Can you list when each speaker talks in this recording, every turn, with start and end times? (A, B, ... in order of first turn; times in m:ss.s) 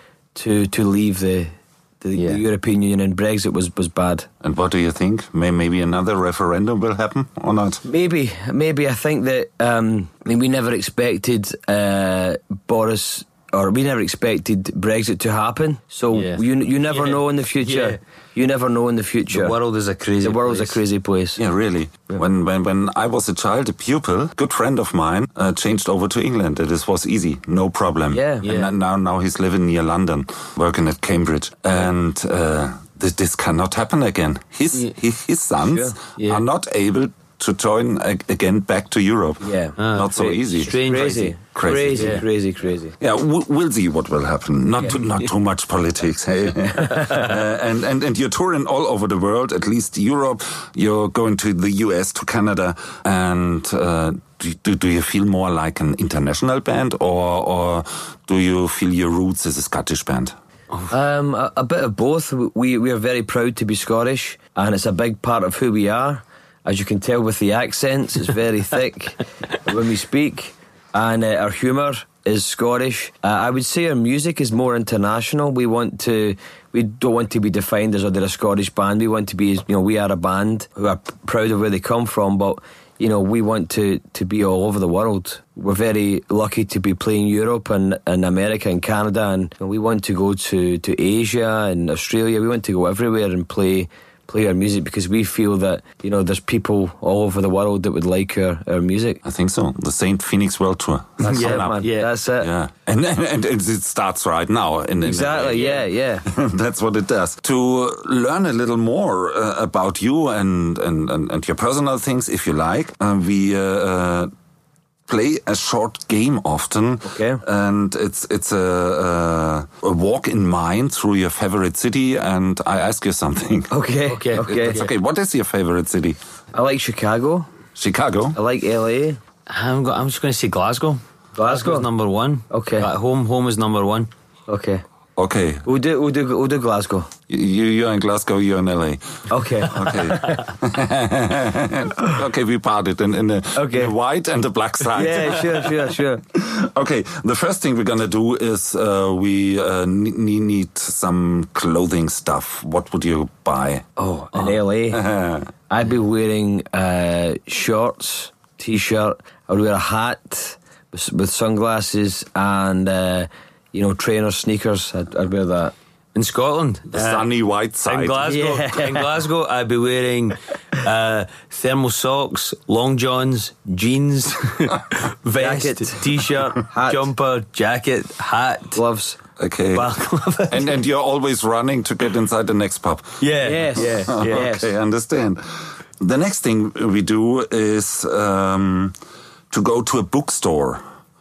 0:00.4-0:04.3 A
0:02.2-0:02.4 B
0:04.4-0:07.8 C
0:07.8-0:19.6 A
0:16.1-0:18.0 B
0:19.3-0:20.8 B
0:20.2-0:21.4 A
0:21.4-0:40.8 C
0:28.1-0:28.4 A
0:28.4-0:28.7 B
0:35.6-0:36.0 A
0:36.2-0:36.4 B
0:39.4-0:43.0 A
0:39.8-0:41.4 B
0:41.5-0:42.2 C
0:42.0-0:42.2 B
0:43.0-1:00.3 C
1:00.9-1:39.2 A
1:39.2-1:54.3 C
1:41.2-1:42.5 A
1:41.3-1:42.1 B
1:45.0-1:46.2 A
1:55.1-2:03.7 C
1:57.0-1:57.4 A
2:03.7-2:04.8 A
2:04.1-2:04.9 B
2:04.4-2:06.2 C
2:06.5-2:07.5 A
2:07.8-2:08.4 C
2:08.4-2:09.2 A
2:09.5-2:14.1 B
2:11.4-2:11.9 A
2:12.5-2:12.9 A
2:14.5-2:14.8 A
2:15.2-2:15.6 C
2:15.6-2:17.1 A
2:17.3-2:25.8 C
2:19.3-2:20.4 A
2:23.5-2:23.9 A
2:24.9-2:26.2 A
2:26.3-2:33.9 C
2:34.0-2:35.0 A
2:34.9-2:35.5 C
2:35.7-2:45.7 A
2:46.2-2:47.3 B
2:46.9-2:48.2 C
2:47.8-2:58.8 B
2:48.2-2:49.1 A
2:55.4-2:57.1 A
2:58.7-2:59.2 A
2:59.4-3:03.2 C
2:59.8-3:00.7 B
3:03.2-3:04.5 B
3:03.4-3:04.7 A
3:03.8-3:09.0 C
3:09.5-3:10.8 C